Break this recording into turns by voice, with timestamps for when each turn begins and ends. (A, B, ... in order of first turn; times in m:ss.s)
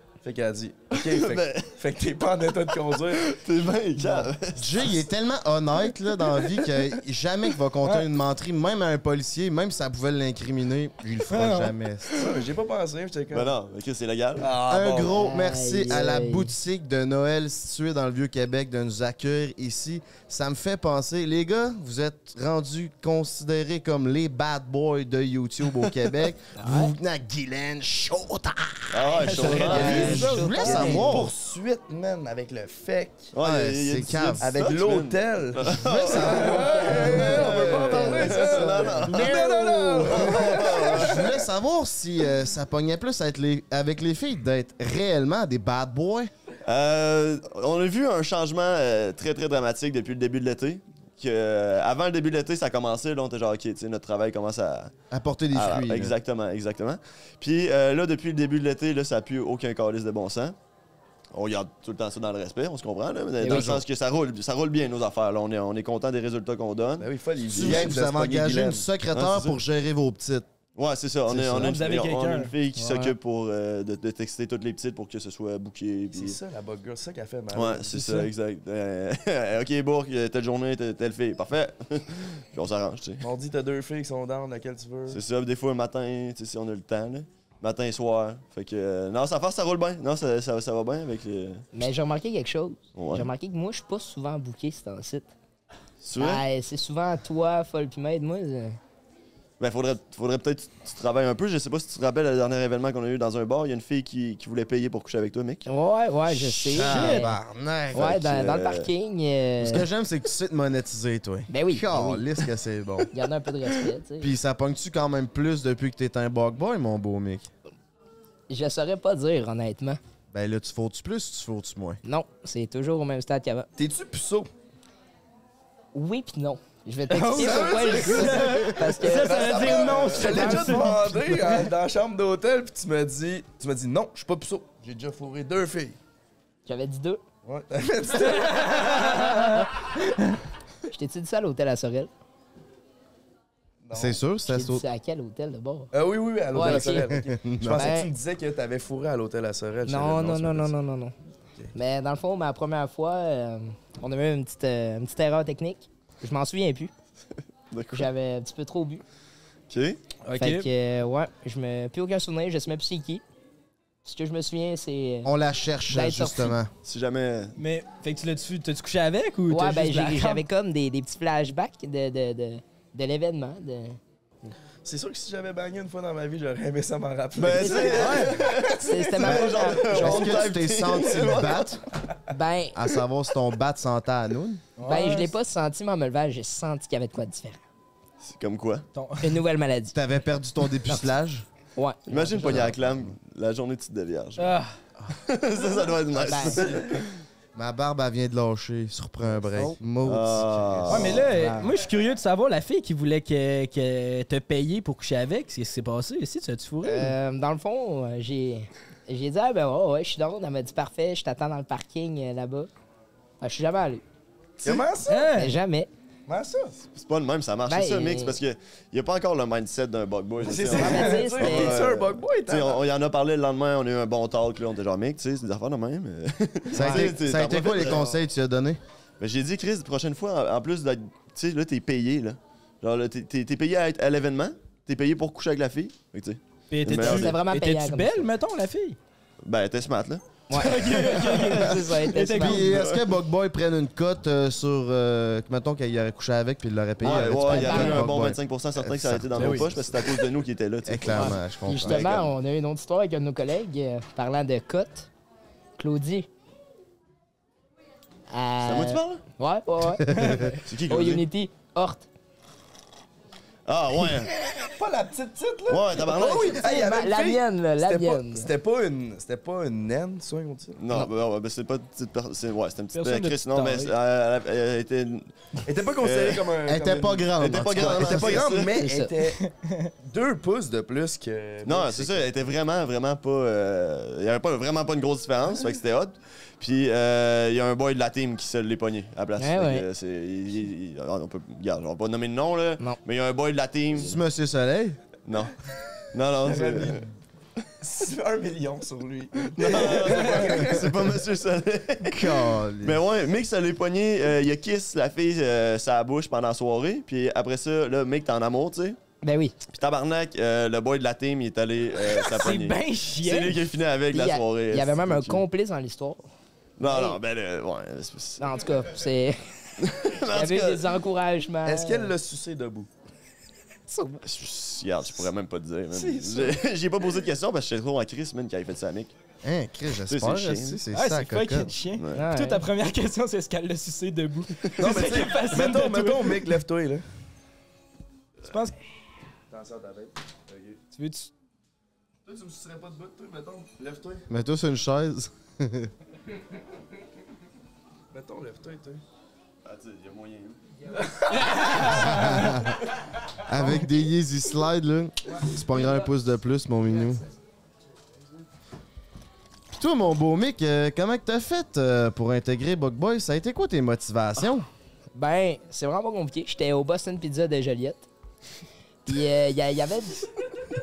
0:00.2-0:03.3 A
0:00.9-0:01.7 B
0:02.7-0:05.0 B
0:04.6-0:12.2 C
0:11.3-0:11.7 D
0:12.2-0:13.5 A
0:13.3-0:14.5 B
0:14.4-0:15.1 A
0:14.7-0:31.3 C
0:15.1-0:16.5 E
0:26.6-0:26.9 E
0:28.9-0:30.3 B
0:29.2-0:30.6 D
0:29.3-0:31.3 E
0:29.8-0:33.3 A
0:33.3-0:39.3 B
0:33.4-0:34.5 C
0:34.4-0:41.3 A
0:35.6-0:46.3 C
0:40.2-0:41.2 B
0:46.6-0:54.9 B
0:55.1-0:56.2 C
0:55.5-1:00.6 B
1:01.3-1:07.1 B
1:03.4-1:03.8 E
1:07.0-1:08.9 A
1:07.5-1:10.5 C
1:07.6-1:07.8 B
1:09.1-1:09.6 B
1:10.8-1:16.4 B
1:11.4-1:12.6 D
1:12.8-1:13.1 E
1:16.1-1:18.2 A
1:17.5-1:23.2 B
1:23.2-1:25.2 A
1:25.1-1:31.6 B
1:31.7-1:35.3 E
1:33.0-1:33.3 B
1:36.0-1:36.4 B
1:36.2-1:38.8 E
1:39.6-1:45.7 B
1:45.7-1:47.4 E
1:46.3-1:48.2 C
1:46.7-1:47.2 D
1:47.9-1:48.9 B
1:47.9-1:49.8 E
1:49.6-1:53.1 C
1:51.5-1:52.2 E
1:53.1-1:54.3 E
1:54.2-1:57.5 C
1:58.5-2:00.0 E
2:00.3-2:02.0 C
2:02.0-2:03.7 E
2:03.8-2:04.5 A
2:05.9-2:10.6 E
2:07.1-2:11.6 D
2:07.4-2:16.0 A
2:16.7-2:17.2 E
2:17.4-2:19.3 A
2:18.4-2:19.7 D
2:20.9-2:22.1 E
2:23.8-2:24.2 A
2:23.9-2:24.8 C
2:24.5-2:25.9 E
2:25.9-2:30.7 A
2:26.5-2:27.2 E
2:26.6-2:27.9 C
2:27.7-2:28.1 E
2:29.9-2:31.2 E
2:31.8-2:36.9 E
2:37.7-2:38.1 B
2:37.9-2:39.0 E
2:39.7-2:40.0 B
2:40.2-2:40.7 D
2:40.4-2:43.2 E
2:44.0-2:45.3 E
2:45.2-2:46.7 C
2:45.9-2:46.6 E
2:46.8-2:47.6 B
2:47.6-2:50.4 D
2:49.5-2:54.0 E
2:54.8-2:58.8 A
2:57.4-3:01.8 B
2:57.6-3:00.3 E
2:57.9-2:58.4 D
2:59.2-3:01.8 C
3:02.3-3:02.8 E
3:02.8-3:04.6 C
3:04.8-3:05.3 D
3:04.9-3:07.6 E
3:08.2-3:08.9 B
3:09.0-3:09.4 D
3:09.2-3:10.0 E
3:09.9-3:11.5 C
3:11.8-3:12.7 E
3:12.1-3:14.5 B
3:12.4-3:13.1 C
3:14.4-3:14.7 D
3:15.1-3:17.1 B
3:16.2-3:16.6 E
3:17.6-3:21.3 C
3:20.0-3:21.3 B
3:20.9-3:27.2 D
3:21.3-3:21.7 E
3:26.8-3:32.7 E
3:33.4-3:34.0 E
3:34.6-3:35.3 A
3:35.1-3:35.6 D
3:35.3-3:35.9 E
3:36.3-3:36.8 A
3:37.0-3:48.0 B
3:37.7-3:38.4 E
3:40.4-3:42.8 A
3:40.7-3:41.8 E
3:46.7-3:48.8 C
3:46.8-3:47.1 E
3:49.2-3:57.4 B
3:56.7-3:59.0 D
3:56.9-3:58.3 E
3:59.4-4:02.0 B
4:00.5-4:02.6 E
4:00.5-4:02.6 D
4:02.4-4:10.0 C
4:02.6-4:03.0 B
4:07.0-4:12.3 B
4:07.1-4:08.1 E
4:10.8-4:12.2 C
4:11.1-4:15.1 E
4:15.8-4:16.3 E
4:18.3-4:22.1 E
4:18.6-4:19.2 B
4:20.7-4:21.2 B
4:23.7-4:24.3 B
4:24.4-4:30.8 A
4:25.7-4:26.6 B
4:26.3-4:28.5 E
4:30.8-4:35.3 B
4:32.9-4:33.9 D
4:35.7-4:39.4 A
4:36.0-4:36.4 B
4:36.6-4:38.5 C
4:37.4-4:38.8 B
4:38.7-4:39.1 E
4:39.4-4:39.9 D
4:40.0-4:42.3 A
4:41.7-4:54.2 B
4:49.4-4:49.9 E
4:53.9-4:55.0 C
4:55.3-4:55.6 B
4:56.1-4:57.0 B
4:56.5-4:57.1 A
4:57.8-5:00.9 A
4:59.6-5:09.0 B
5:02.0-5:03.0 C
5:09.2-5:09.6 E
5:09.7-5:15.4 B
5:12.3-5:13.6 D
5:14.1-5:16.3 E
5:16.8-5:18.5 B
5:16.8-5:17.2 E
5:18.4-5:19.4 E
5:19.8-5:21.0 B
5:20.3-5:22.1 E
5:21.6-5:22.9 A
5:23.9-5:24.2 E
5:24.2-5:29.1 B
5:25.9-5:26.6 A
5:29.4-5:31.7 C
5:30.1-5:30.8 B
5:30.9-5:36.5 D
5:32.0-5:32.2 B
5:32.2-5:32.7 E
5:34.6-5:35.0 B
5:34.8-5:37.0 A
5:38.4-5:38.8 D
5:39.5-5:40.8 A
5:40.9-5:41.3 D
5:42.3-5:44.2 A
5:44.3-5:45.9 C
5:48.1-5:49.0 A
5:49.6-5:50.6 B
5:51.0-5:51.7 A
5:51.4-5:52.2 D
5:51.9-5:52.8 C
5:53.5-5:57.2 C
5:59.7-6:04.7 C
6:05.2-6:08.1 E
6:09.1-6:10.3 E